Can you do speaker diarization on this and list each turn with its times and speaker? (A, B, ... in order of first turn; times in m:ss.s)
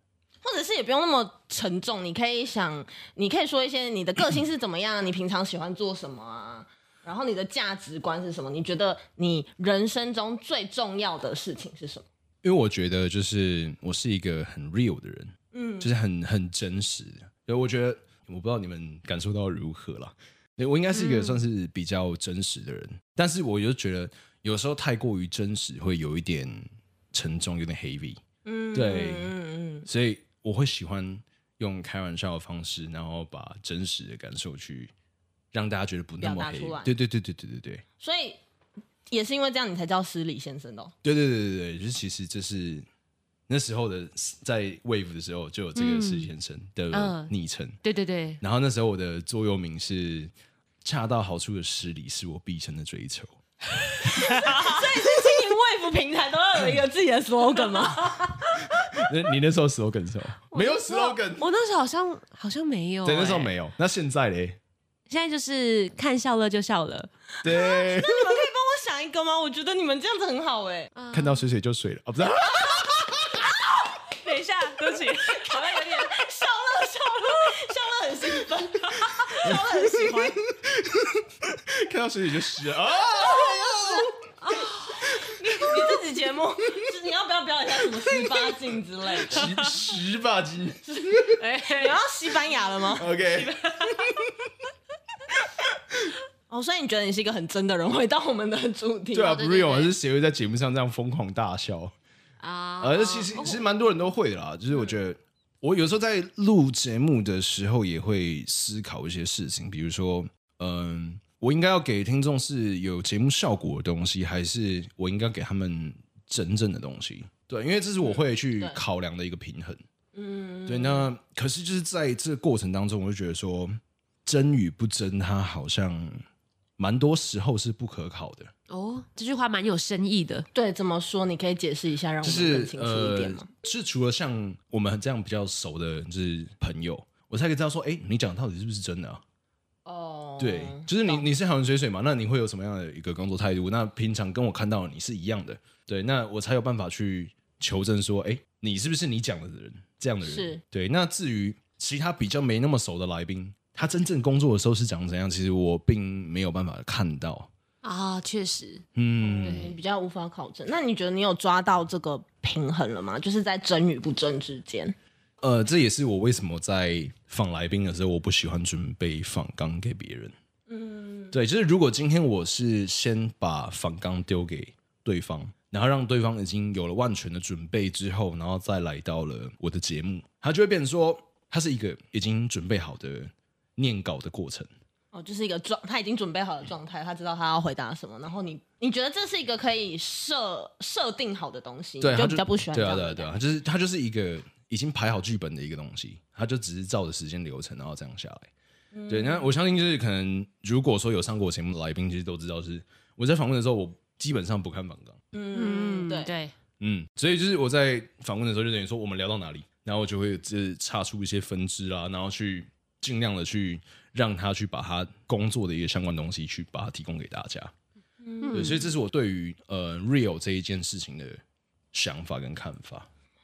0:00.4-0:12.0 A
0:12.4-0:28.2 B
0:15.5-0:15.9 A
0:20.9-0:21.4 C
0:28.4-0:29.9 A
0:28.7-0:29.3 B
0:29.8-0:34.9 B
0:35.5-0:37.8 B
0:36.2-0:36.9 A
0:38.0-0:38.4 A
0:39.1-0:40.9 A
0:41.0-0:42.8 B
0:43.5-0:47.8 B
0:45.7-0:46.3 C
0:46.9-0:47.3 C
0:47.8-0:48.4 C
0:48.4-0:50.3 B
0:50.8-0:53.4 B
0:54.2-0:58.7 A
0:54.3-0:54.8 C
0:58.8-1:01.5 B
1:00.5-1:03.5 C
1:03.0-1:04.6 B
1:05.1-1:07.1 C
1:07.4-1:08.4 B
1:07.4-1:10.9 A
1:11.0-1:11.5 C
1:11.1-1:13.4 B
1:14.0-1:16.2 C
1:15.2-1:20.4 A
1:20.5-1:24.1 B
1:23.3-1:24.0 A
1:24.4-1:25.0 C
1:25.0-1:29.5 A
1:29.2-1:31.4 B
1:29.4-1:29.7 C
1:31.4-1:32.0 C
1:31.7-1:33.1 A
1:32.9-1:34.1 B
1:33.2-1:34.1 C
1:36.5-1:39.4 A
1:39.1-1:41.9 B
1:39.2-1:39.9 C
1:42.4-1:43.6 C
1:42.8-1:59.8 B
1:58.0-1:58.8 A
2:00.1-2:01.1 A
2:00.7-2:06.2 B
2:06.8-2:08.5 B
2:08.7-2:10.5 C
2:10.5-2:13.5 A
2:12.2-2:19.2 B
2:19.8-2:21.3 A
2:20.4-2:37.5 B
2:30.2-2:30.6 A
2:37.8-2:38.8 C
2:38.9-2:39.7 B
2:39.2-2:44.9 A
2:39.4-2:39.7 C
2:45.4-2:50.3 B
2:50.7-2:51.3 A
2:51.3-3:04.7 B
3:05.1-3:13.3 A
3:12.0-3:18.5 B
3:18.9-3:19.5 A
3:19.1-3:25.2 B
3:25.3-3:26.3 A
3:25.5-3:26.5 C
3:26.8-3:37.7 B
3:38.2-3:38.8 A
3:38.4-3:38.8 C
3:38.5-3:41.4 B
3:41.9-3:43.1 B